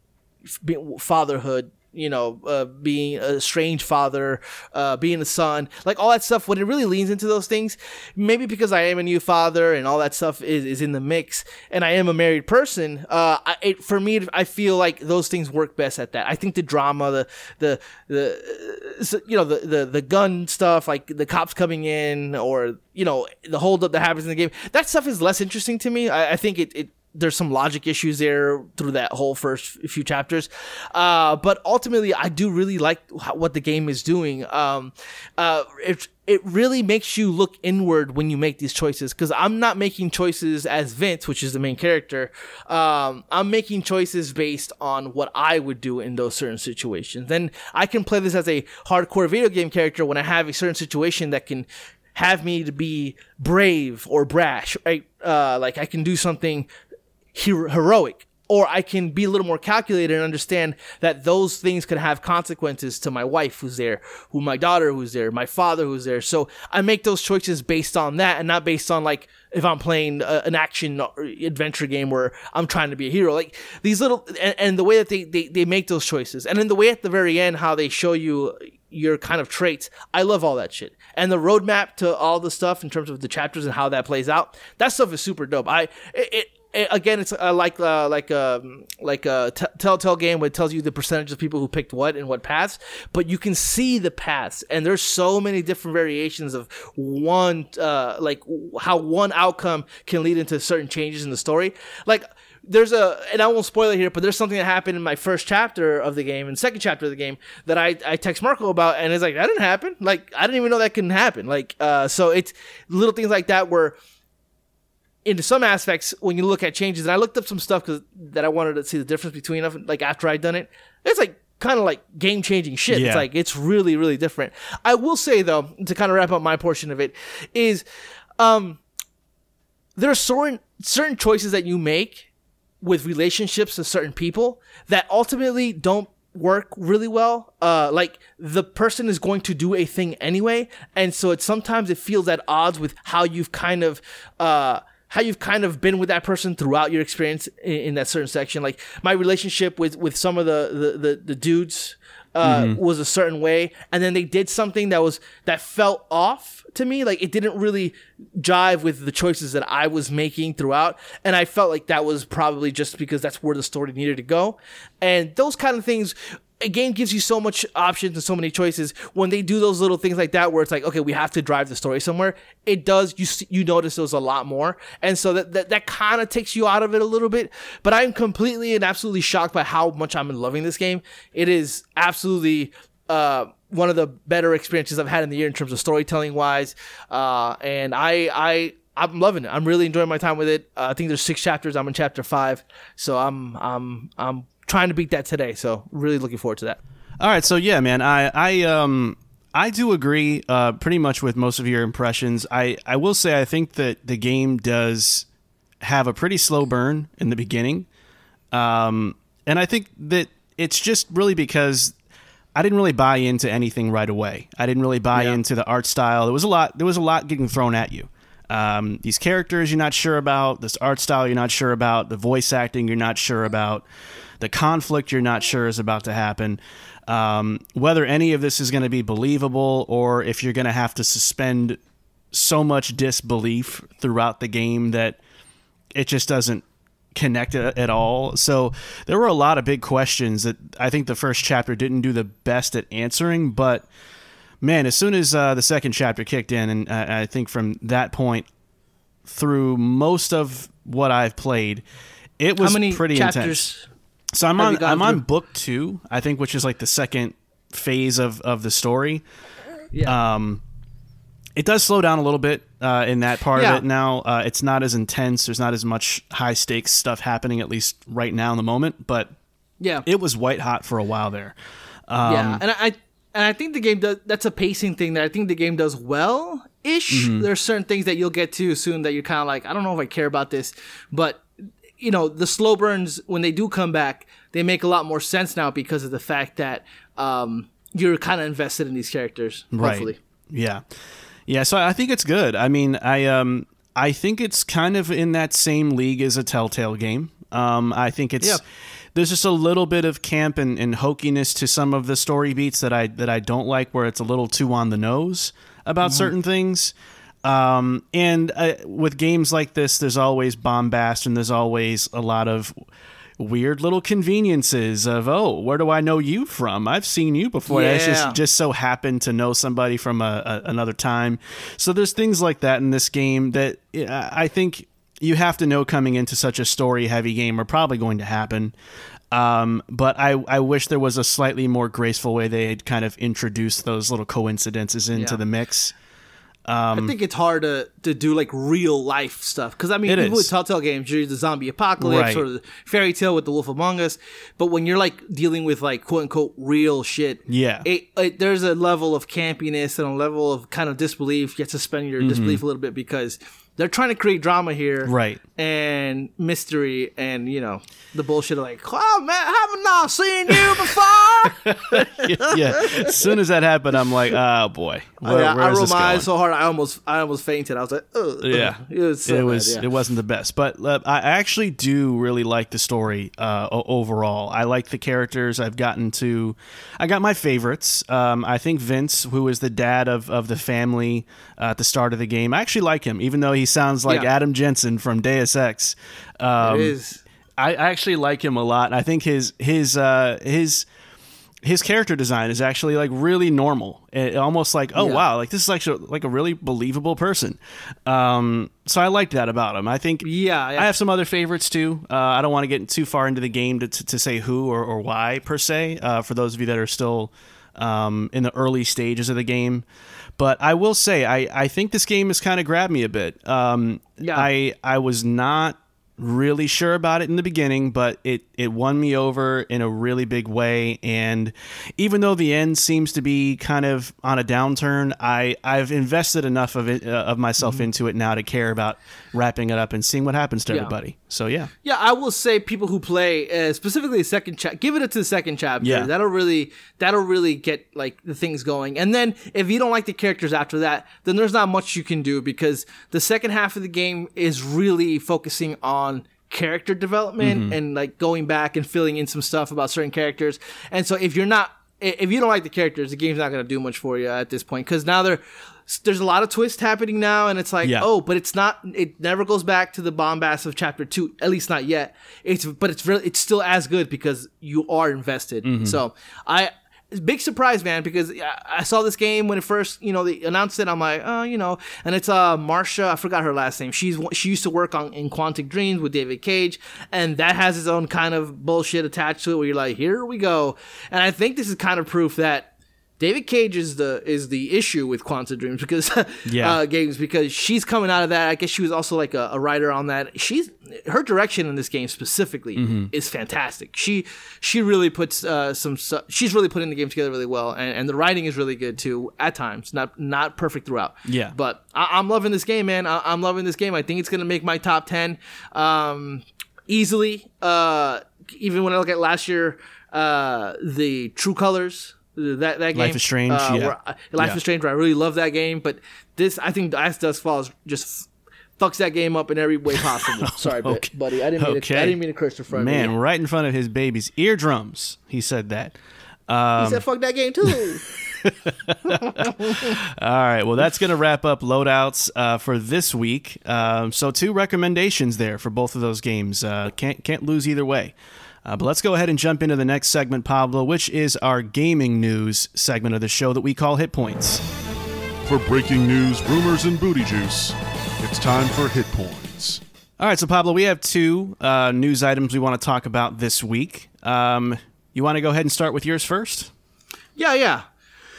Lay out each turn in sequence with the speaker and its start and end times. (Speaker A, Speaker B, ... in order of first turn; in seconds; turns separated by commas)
Speaker A: 0.6-56.7, Speaker A: 57.3-114.0, Speaker A: 115.2-127.8, Speaker B: 122.9-123.3, Speaker A: 128.4-128.8, Speaker A: 129.9-132.3, Speaker A: 132.8-196.8, Speaker B: 152.4-152.8, Speaker B: 197.2-205.3, Speaker B: 205.8-207.9, Speaker B: 208.5-211.9, Speaker B: 212.5-223.8, Speaker A: 215.1-215.4, Speaker B: 224.4-231.8, Speaker B: 232.3-235.2, Speaker B: 235.9-236.6, Speaker B: 237.1-243.8, Speaker B: 244.6-248.5, Speaker B: 249.2-251.8, Speaker B: 252.4-253.7, Speaker A: 252.6-253.9, Speaker B: 254.3-259.2, Speaker A: 254.6-255.2, Speaker A: 259.9-260.2, Speaker B: 260.0-260.6, Speaker B: 261.6-269.3, Speaker A: 263.5-263.8, Speaker A: 269.8-270.1, Speaker B: 270.1-271.6, Speaker B: 272.1-272.6, Speaker A: 272.2-281.4, Speaker B: 277.1-277.5, Speaker A: 282.0-290.2, Speaker B: 289.7-290.8, Speaker B: 291.5-298.6, Speaker B: 299.1-312.7, Speaker A: 306.0-306.3, Speaker B: 313.4-328.7, Speaker A: 317.7-318.4, Speaker B: 329.3-335.9, Speaker A: 335.1-335.4, Speaker B: 336.6-337.1, Speaker A: 336.9-363.1, Speaker B: 340.1-340.5, Speaker B: 342.0-342.4, Speaker B: 347.5-347.9, Speaker B: 352.2-352.6, Speaker B: 355.0-355.4, Speaker B: 360.5-361.0, Speaker B: 361.5-366.3, Speaker A: 365.2-369.8, Speaker B: 368.4-386.9, Speaker A: 386.6-387.2, Speaker B: 387.6-390.9, Speaker B: 391.6-409.8, Speaker A: 394.9-395.2, Speaker A: 400.2-400.9, Speaker B: 410.4-431.7, Speaker A: 414.2-414.5, Speaker A: 431.8-523.1, Speaker B: 435.8-436.1, Speaker B: 447.4-447.8, Speaker B: 457.8-458.1, Speaker B: 465.6-466.0, Speaker B: 486.5-486.8, Speaker B: 492.8-493.1, Speaker B: 501.2-501.5, Speaker B: 512.9-514.6, Speaker B: 520.4-522.2, Speaker B: 522.7-526.0, Speaker B: 526.5-527.0, Speaker A: 526.8-528.0, Speaker B: 528.2-544.6, Speaker A: 529.0-529.9, Speaker C: 545.4-549.8, Speaker B: 550.2-556.7, Speaker A: 557.4-557.8